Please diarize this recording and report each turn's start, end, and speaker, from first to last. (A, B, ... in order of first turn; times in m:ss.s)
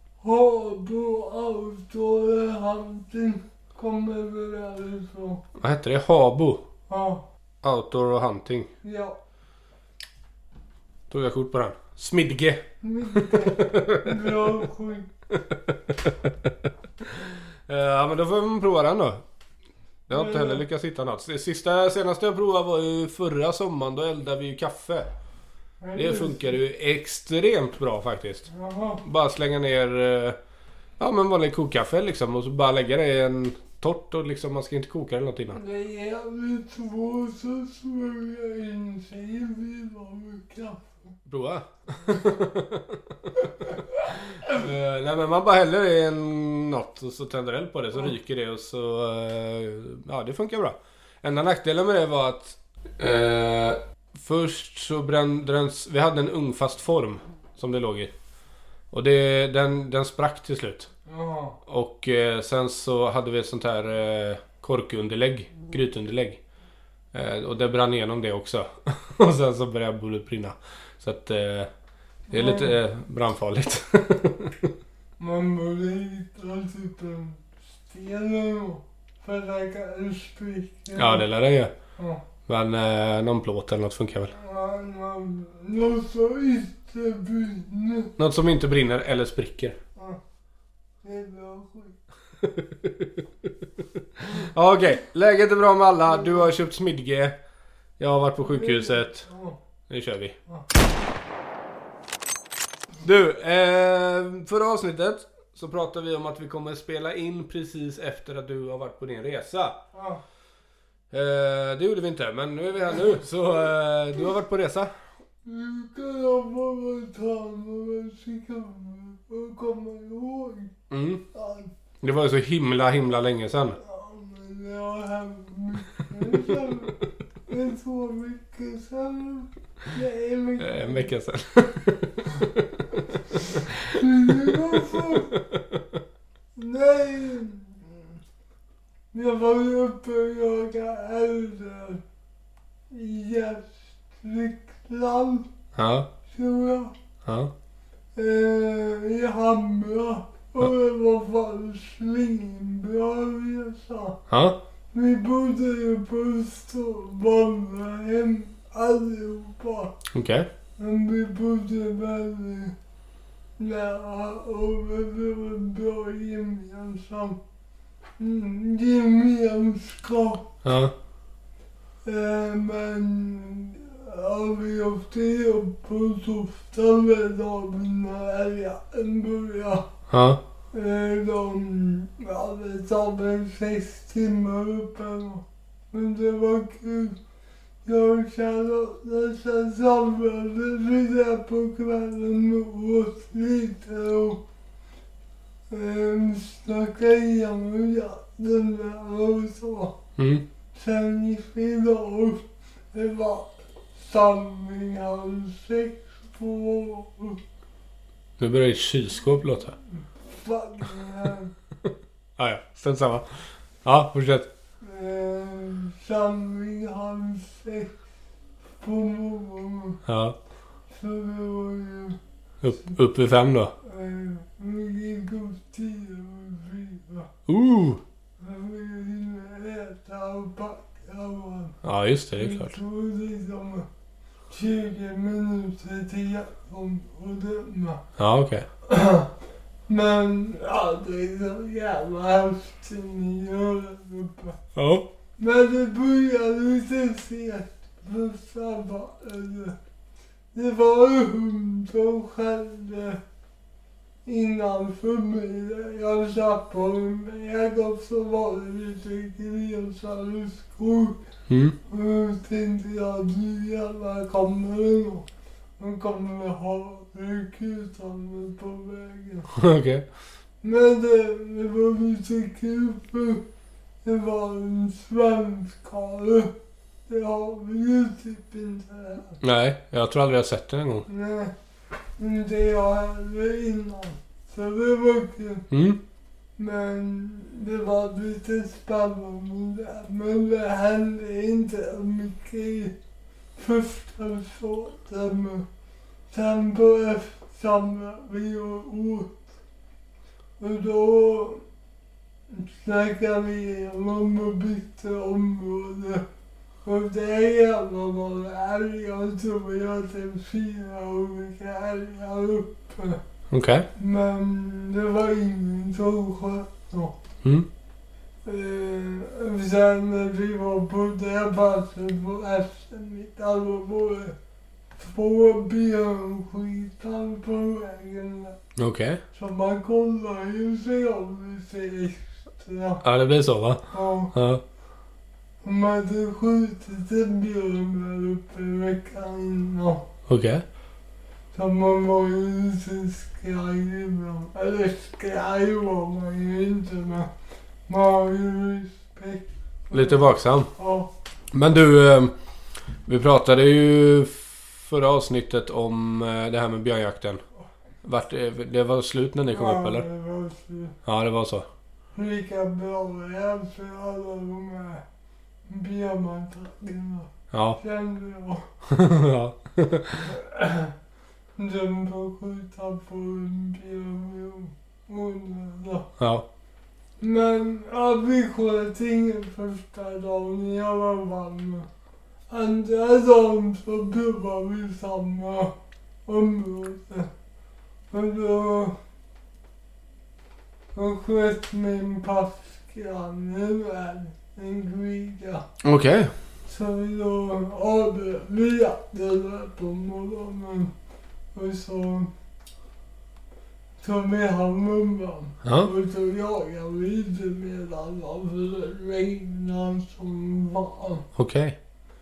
0:00.2-0:05.4 A
0:05.6-0:06.6 B
0:06.9-0:07.2 A
0:07.6-0:08.7 B
0:08.8-0:09.2 A
0:11.1-0:14.6 B
0:12.8-0:15.1 A
0:15.5-0:16.2 B
0:17.1-0:19.2 B
0:20.1-0:25.1 B
0:20.1-0:20.6 A
0:25.8-0:26.6 A
0:25.9-0:28.5 B
0:28.5-0:29.0 A
0:29.0-0:30.4 B
0:31.0-0:35.6 B
0:35.5-0:41.1 A
0:41.2-0:43.8 B
0:44.4-0:58.1 B
0:58.9-1:00.9 B
1:01.1-1:01.6 A
1:01.6-1:06.4 B
1:07.1-1:11.7 B
1:12.3-1:12.8 A
1:12.3-1:14.7 B
1:15.2-1:21.3 A
1:21.0-1:21.7 B
1:22.0-1:22.2 A
1:22.5-1:24.3 B
1:24.3-1:28.1 A
1:28.2-1:29.8 B
1:31.0-1:32.0 A
1:32.4-1:33.2 B
1:34.2-1:37.4 B
1:38.0-1:39.3 B
1:38.4-1:39.6 A
1:39.9-1:40.4 B
1:43.0-1:49.8 B
1:49.9-1:50.2 A
1:51.1-1:54.9 B
1:55.4-2:00.7 A
2:00.9-2:01.2 B
2:01.3-2:01.7 A
2:02.0-2:03.8 B
2:03.8-2:11.1 A
2:10.6-2:16.0 B
2:13.4-2:15.4 A
2:16.6-2:18.0 A
2:19.1-2:22.0 A
2:22.9-2:25.5 A
2:25.8-2:26.1 B
2:26.3-2:26.9 A
2:27.2-2:27.5 B
2:28.2-2:34.2 A
2:34.3-2:34.6 B
2:34.9-2:40.0 A
2:40.1-2:40.5 B
2:40.8-2:42.7 A
2:43.6-2:47.4 A
2:48.2-2:50.6 A
2:50.6-2:50.9 B
2:52.0-2:59.9 A
3:00.1-3:00.4 B
3:00.7-3:07.2 A
3:07.8-3:14.4 A
3:15.7-3:20.0 A
3:20.2-3:20.4 B
3:20.7-3:27.4 A
3:28.4-3:29.8 B
3:30.3-3:31.5 A
3:32.4-3:33.2 B
3:33.8-3:34.5 B
3:34.8-3:37.9 A
3:38.8-3:40.0 A
3:40.0-3:40.4 B
3:40.9-3:42.2 A
3:42.6-3:43.7 B
3:43.8-3:47.3 A
3:47.5-3:48.0 B
3:48.4-3:51.8 A
3:51.8-3:52.8 B
3:52.3-3:53.9 A
3:54.5-3:58.0 A
3:58.2-3:58.6 B
3:58.9-3:59.3 A
3:59.9-4:04.6 A
4:04.7-4:05.1 B
4:05.4-4:09.8 A
4:10.5-4:13.2 A
4:14.2-4:21.2 A
4:21.5-4:21.8 B
4:21.8-4:25.3 A
4:25.8-4:29.5 A
4:29.5-4:30.0 B
4:30.6-4:33.4 A
4:34.0-4:36.5 A
4:37.1-4:39.4 A
4:39.4-4:41.0 B
4:41.1-4:41.5 A
4:42.2-4:45.7 A
4:45.7-4:46.0 B
4:46.6-4:53.0 A
4:53.6-4:55.6 A
4:56.3-4:59.5 A
5:00.6-5:01.6 A
5:02.5-5:06.2 A
5:06.8-5:13.2 A
5:13.5-5:13.9 B
5:14.0-5:17.2 A
5:18.4-5:24.4 A
5:25.0-5:28.6 A
5:28.8-5:29.2 B
5:29.3-5:33.0 A
5:33.0-5:34.6 B
5:33.9-5:34.3 A
5:35.6-5:40.1 A
5:40.3-5:40.6 B
5:41.5-5:47.3 A
5:47.9-5:51.1 A
5:49.9-5:50.7 B
5:51.5-5:52.3 B
5:53.0-5:57.4 B
5:58.0-6:00.0 B
5:59.5-6:00.9 A
6:01.0-6:01.7 B
6:02.1-6:05.0 A
6:05.7-6:08.7 A
6:07.5-6:07.8 B
6:08.8-6:10.3 B
6:10.2-6:10.9 A
6:11.6-6:16.1 A
6:16.2-6:16.4 B
6:17.2-6:21.9 A
6:22.5-6:27.3 A
6:28.1-6:29.0 A
6:30.9-6:35.7 A
6:35.8-6:36.3 B
6:36.6-6:40.9 A
6:41.5-6:42.3 A
6:44.0-6:51.3 A
6:45.6-6:45.9 B
6:51.4-6:51.8 B